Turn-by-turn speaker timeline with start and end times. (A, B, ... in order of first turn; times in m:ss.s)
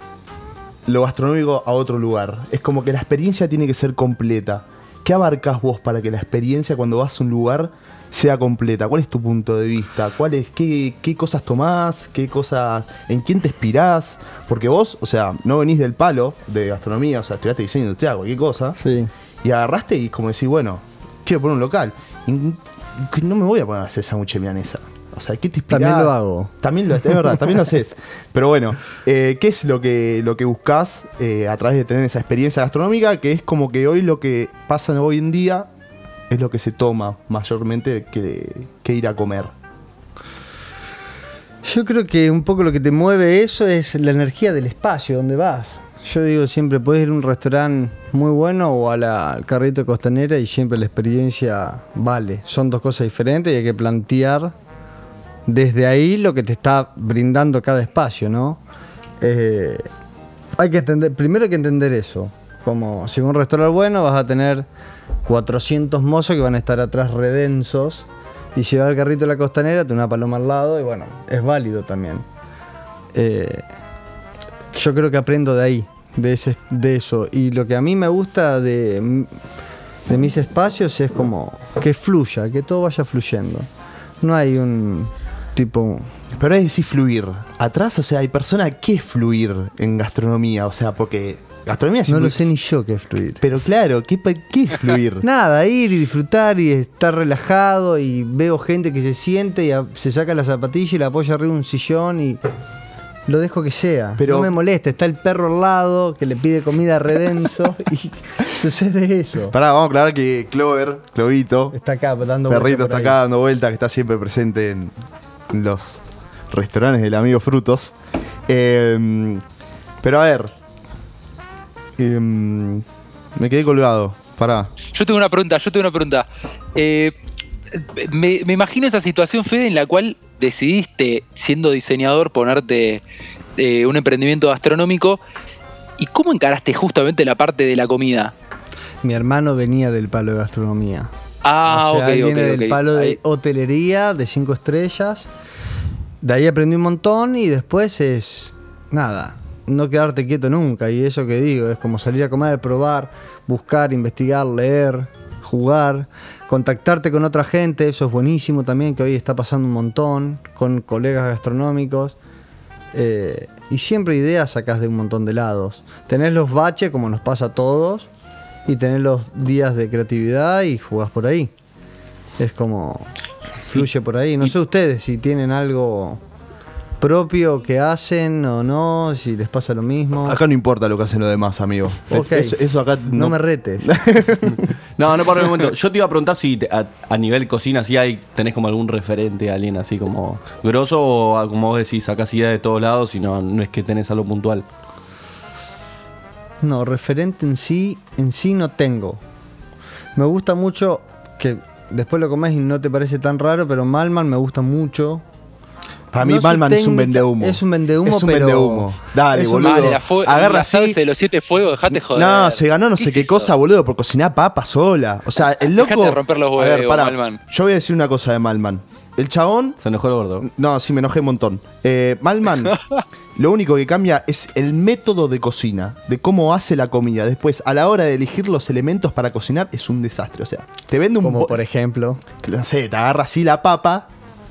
0:00.9-0:18.8 A
0:18.8-0:19.1 B
0:19.4-0:35.7 A
0:25.7-0:26.5 B
0:36.3-0:39.5 A
0:41.6-0:54.5 B
0:55.5-0:58.6 B
0:59.2-0:59.9 B
1:00.6-1:04.7 B
1:05.2-1:12.2 B
1:13.1-1:13.7 B
1:14.7-1:19.3 B
1:20.1-1:23.7 B
1:24.2-1:26.1 B
1:26.3-1:32.5 A
1:32.1-1:33.4 B
1:33.4-1:35.2 A
1:35.2-1:42.4 B
1:43.3-1:49.6 B
1:44.2-1:44.5 A
1:49.5-1:51.8 A
1:51.7-1:53.2 B
1:52.5-1:54.9 A
1:55.5-1:58.0 A
1:58.5-1:59.4 A
2:00.0-2:00.5 A
2:02.0-2:02.8 A
2:03.4-2:04.7 A
2:04.9-2:07.2 C
2:07.7-2:13.0 C
2:13.6-2:15.2 C
2:16.0-2:18.3 C
2:19.0-2:21.1 B
2:21.4-2:23.2 C
2:21.7-2:25.3 B
2:26.2-2:42.2 B
2:42.9-2:48.1 B
2:48.7-2:51.5 B
2:52.4-2:53.1 B
2:53.6-2:56.2 B
2:57.0-3:00.4 B
3:00.2-3:04.6 A
3:02.1-3:04.0 B
3:04.5-3:14.6 D
3:16.6-3:19.2 B
3:20.2-3:25.2 B
3:26.1-3:31.0 A
3:26.2-3:30.0 B
3:29.4-3:33.5 C
3:31.9-3:39.8 A
3:35.6-3:37.4 C
3:39.8-3:40.5 D
3:40.4-3:42.8 A
3:43.4-3:51.6 A
3:51.2-3:52.2 B
3:52.4-3:54.1 A